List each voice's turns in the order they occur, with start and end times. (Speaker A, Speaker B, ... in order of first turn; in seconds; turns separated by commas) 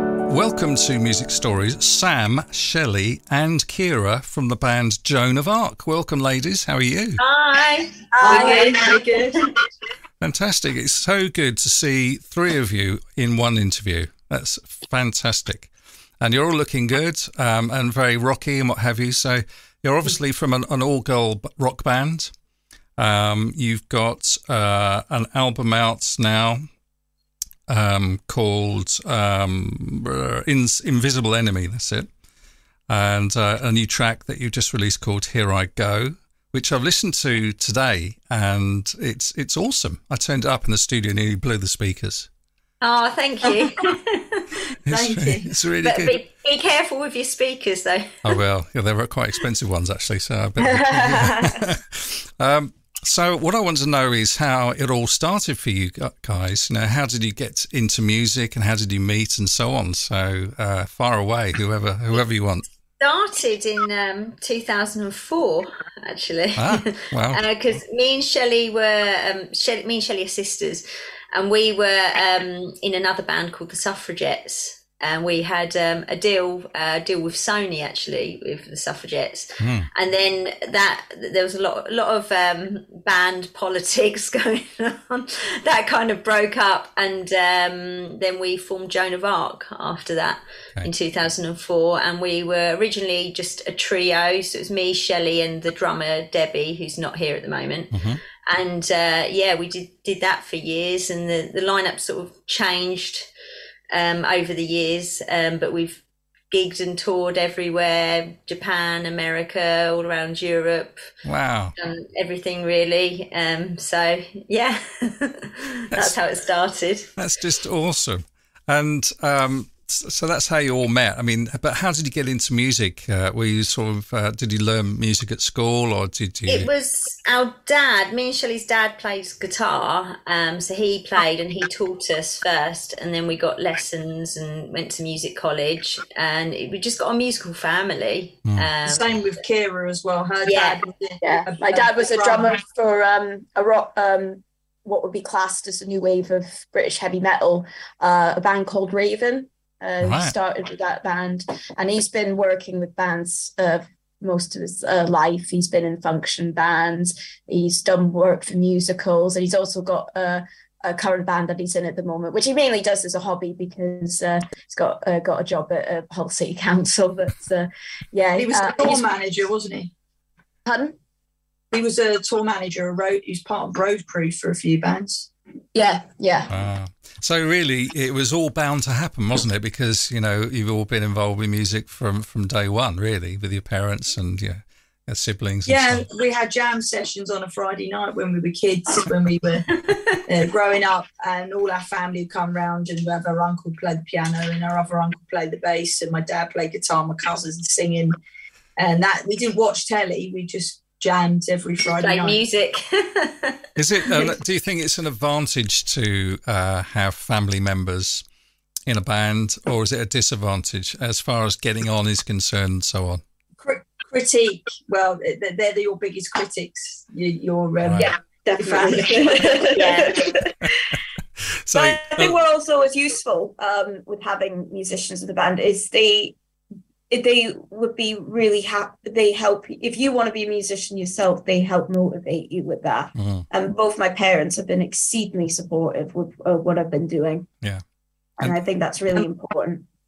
Speaker A: 0.3-7.2, Speaker B: 7.2-9.1, Speaker C: 8.2-9.0, Speaker D: 8.2-9.4, Speaker A: 10.2-15.7, Speaker A: 16.2-22.3, Speaker A: 23.0-26.6, Speaker A: 27.7-32.1, Speaker A: 32.9-42.3, Speaker B: 42.8-44.6, Speaker A: 44.9-46.2, Speaker D: 44.9-45.5, Speaker B: 45.8-48.3, Speaker A: 48.2-62.6, Speaker C: 50.6-51.3, Speaker B: 63.0-103.3, Speaker A: 66.6-67.4, Speaker A: 79.6-79.9, Speaker A: 97.9-98.2, Speaker B: 103.9-111.0, Speaker A: 111.2-111.7, Speaker B: 111.8-117.1, Speaker A: 117.2-126.7, Speaker B: 126.5-139.2, Speaker D: 138.8-142.6, Speaker B: 140.4-140.8, Speaker C: 141.2-169.1, Speaker A: 150.0-150.3, Speaker D: 168.4-169.9, Speaker C: 170.7-170.9, Speaker D: 171.7-175.3, Speaker C: 175.7-176.5, Speaker A: 176.5-186.1, Speaker D: 185.7-198.2, Speaker D: 198.8-202.4, Speaker B: 201.8-204.3, Speaker A: 203.8-208.2, Speaker A: 208.9-213.2, Speaker D: 213.6-219.8, Speaker A: 217.8-218.1, Speaker C: 218.0-220.8, Speaker B: 219.6-220.2, Speaker A: 221.6-222.4, Speaker C: 221.7-226.3, Speaker C: 227.1-237.5, Speaker A: 233.2-233.4, Speaker C: 238.4-239.8